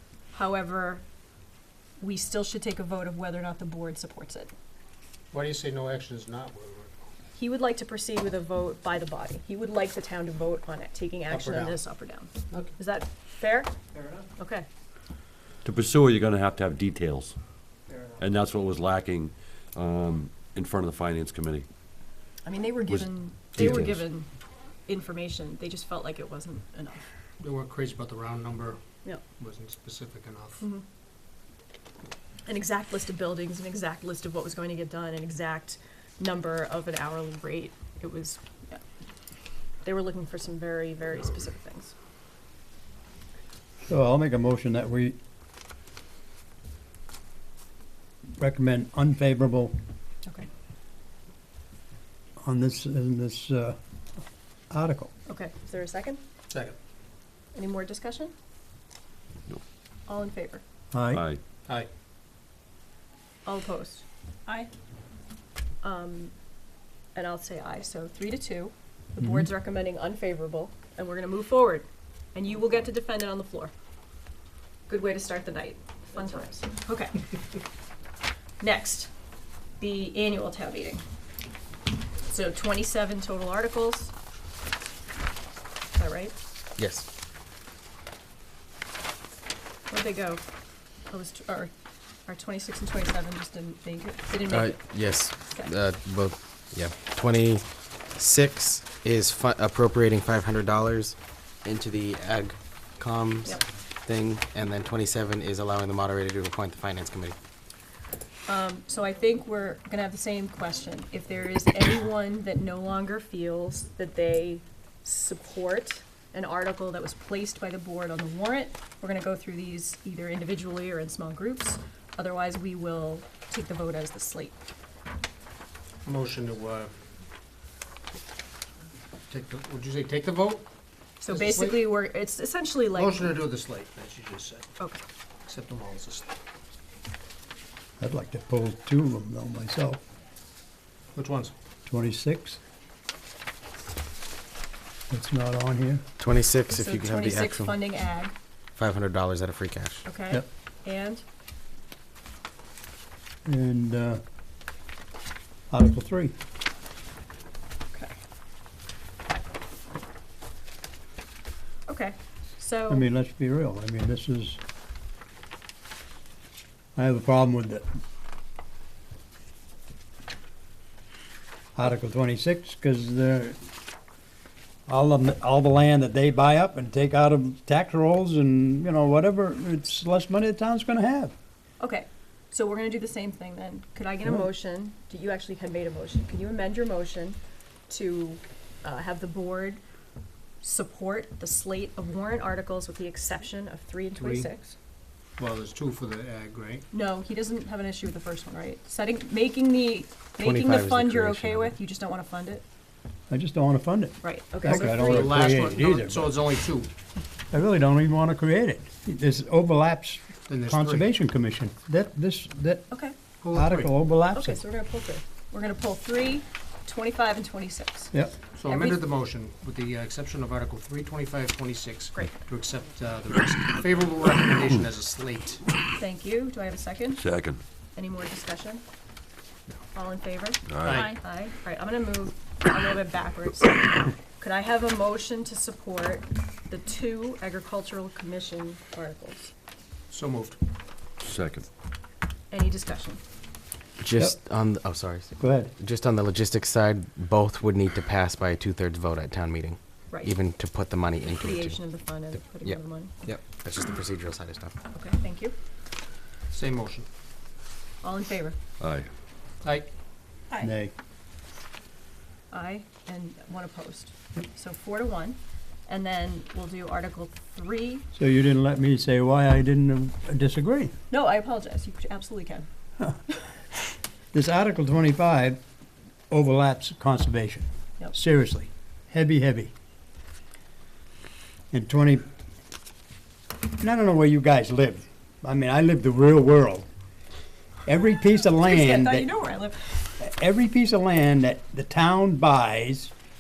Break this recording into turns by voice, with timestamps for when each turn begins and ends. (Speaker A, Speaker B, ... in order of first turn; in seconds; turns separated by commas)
Speaker A: 0.3-1.0, Speaker A: 2.0-4.5, Speaker B: 5.3-7.0, Speaker A: 7.4-13.7, Speaker B: 11.3-11.8, Speaker A: 14.4-14.7, Speaker C: 15.6-17.4, Speaker C: 18.2-21.7, Speaker A: 22.4-24.3, Speaker C: 22.9-24.0, Speaker A: 24.9-27.1, Speaker B: 27.4-28.8, Speaker B: 29.4-30.6, Speaker A: 30.6-30.9, Speaker A: 32.5-38.8, Speaker A: 39.8-41.9, Speaker D: 43.9-45.2, Speaker D: 48.4-49.7, Speaker D: 52.4-53.8, Speaker D: 54.7-55.1, Speaker A: 55.3-56.2, Speaker A: 57.5-58.3, Speaker A: 60.1-60.6, Speaker D: 60.9-61.2, Speaker C: 61.1-61.4, Speaker A: 63.5-64.7, Speaker A: 65.8-66.3, Speaker A: 67.2-73.7, Speaker D: 69.2-69.5, Speaker A: 74.9-77.3, Speaker A: 78.6-79.1, Speaker A: 79.8-81.0, Speaker A: 82.3-84.1, Speaker A: 85.9-86.3, Speaker E: 86.8-87.1, Speaker A: 89.9-90.4, Speaker A: 91.1-91.7, Speaker A: 92.3-94.8, Speaker E: 94.5-107.4, Speaker A: 95.4-95.7, Speaker A: 108.5-124.6, Speaker B: 126.0-126.9, Speaker B: 129.3-130.7, Speaker A: 131.2-133.4, Speaker B: 131.3-131.8, Speaker B: 132.9-134.7, Speaker B: 135.5-136.3, Speaker D: 138.0-140.0, Speaker B: 141.2-141.6, Speaker D: 141.9-142.6, Speaker D: 145.1-146.0, Speaker E: 146.2-147.7, Speaker A: 146.7-148.3, Speaker E: 148.8-150.0, Speaker A: 150.1-151.2, Speaker D: 153.5-154.2, Speaker D: 155.7-156.3, Speaker A: 161.9-163.1, Speaker D: 162.9-164.6, Speaker D: 167.0-167.8, Speaker D: 171.8-173.6, Speaker D: 174.9-181.3, Speaker A: 181.8-187.4, Speaker A: 187.9-189.8, Speaker A: 190.6-194.8, Speaker B: 194.2-194.5, Speaker B: 195.4-196.8, Speaker A: 196.9-202.6, Speaker E: 200.4-201.8, Speaker D: 203.3-206.4, Speaker A: 204.2-205.3, Speaker B: 204.7-206.9, Speaker D: 207.5-212.9, Speaker B: 210.5-211.1, Speaker B: 213.4-213.9, Speaker D: 213.5-214.6, Speaker A: 214.3-218.1, Speaker B: 218.6-225.6, Speaker A: 218.7-219.0, Speaker A: 226.0-227.2, Speaker C: 227.2-227.6, Speaker A: 228.0-228.8, Speaker A: 229.9-239.5, Speaker C: 230.7-231.1, Speaker B: 230.8-231.2, Speaker B: 240.1-240.6, Speaker C: 241.2-241.7, Speaker A: 242.5-243.2, Speaker E: 244.0-251.9, Speaker D: 245.4-245.7, Speaker A: 250.1-250.3, Speaker A: 251.3-253.2, Speaker E: 252.6-254.8, Speaker A: 254.9-255.5, Speaker B: 256.5-257.1, Speaker A: 258.0-258.6, Speaker C: 258.8-259.1, Speaker D: 260.6-260.9, Speaker A: 262.5-268.1, Speaker D: 268.1-270.9, Speaker A: 271.1-272.7, Speaker D: 274.3-275.6, Speaker D: 276.3-279.7, Speaker D: 281.7-282.3, Speaker D: 283.8-286.9, Speaker D: 287.9-289.3, Speaker A: 288.5-290.0, Speaker D: 290.2-293.1